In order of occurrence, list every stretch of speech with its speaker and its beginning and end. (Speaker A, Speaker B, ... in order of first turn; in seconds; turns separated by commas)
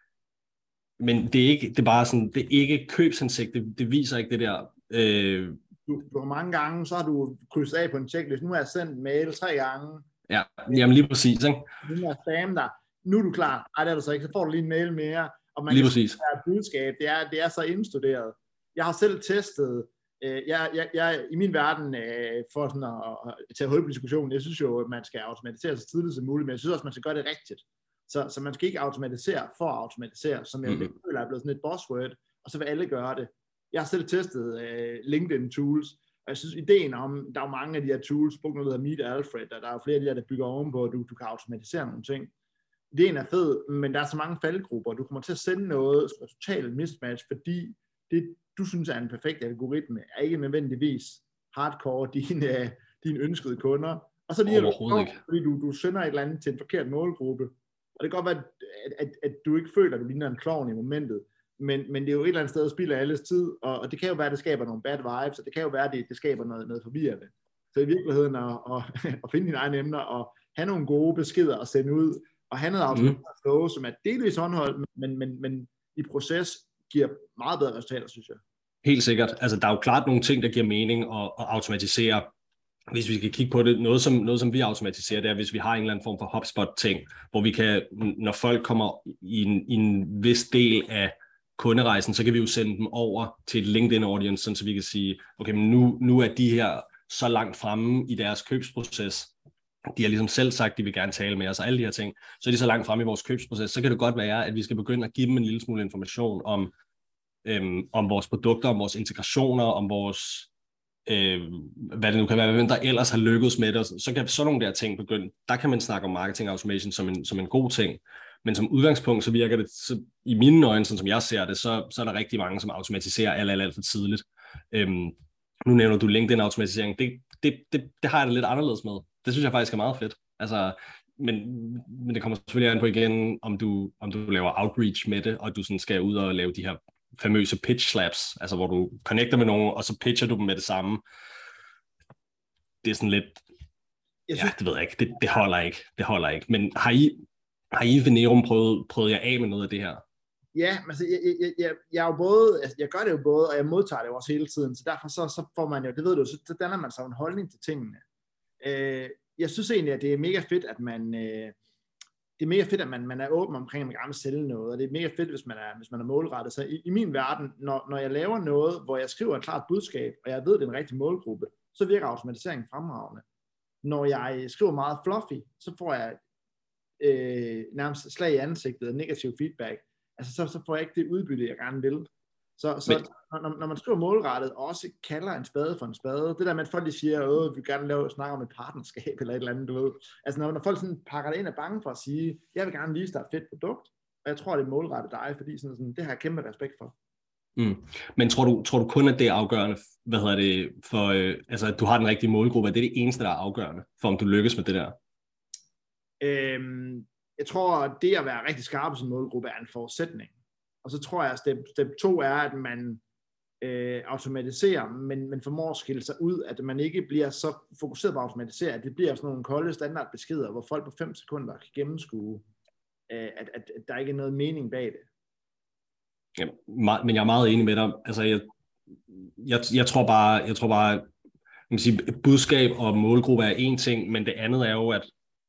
Speaker A: 1.0-5.6, Speaker B: 5.9-10.1, Speaker A: 10.3-11.7, Speaker B: 11.8-42.3, Speaker A: 15.7-16.2, Speaker B: 42.9-78.4, Speaker A: 54.5-55.2, Speaker A: 72.9-73.2, Speaker A: 78.8-82.3, Speaker A: 82.9-99.3, Speaker A: 99.9-106.7, Speaker A: 107.4-110.5, Speaker A: 111.0-141.0, Speaker A: 142.8-143.4, Speaker B: 144.3-144.5, Speaker A: 144.3-147.2, Speaker A: 147.7-150.0, Speaker B: 150.5-158.0, Speaker B: 158.6-161.5, Speaker B: 162.4-173.2, Speaker B: 173.8-176.2, Speaker B: 177.0-196.9, Speaker A: 197.6-205.0, Speaker B: 206.2-210.3, Speaker B: 210.8-213.0, Speaker B: 213.6-222.4, Speaker B: 223.1-225.1, Speaker A: 226.3-228.5, Speaker A: 229.1-231.1, Speaker A: 231.7-235.1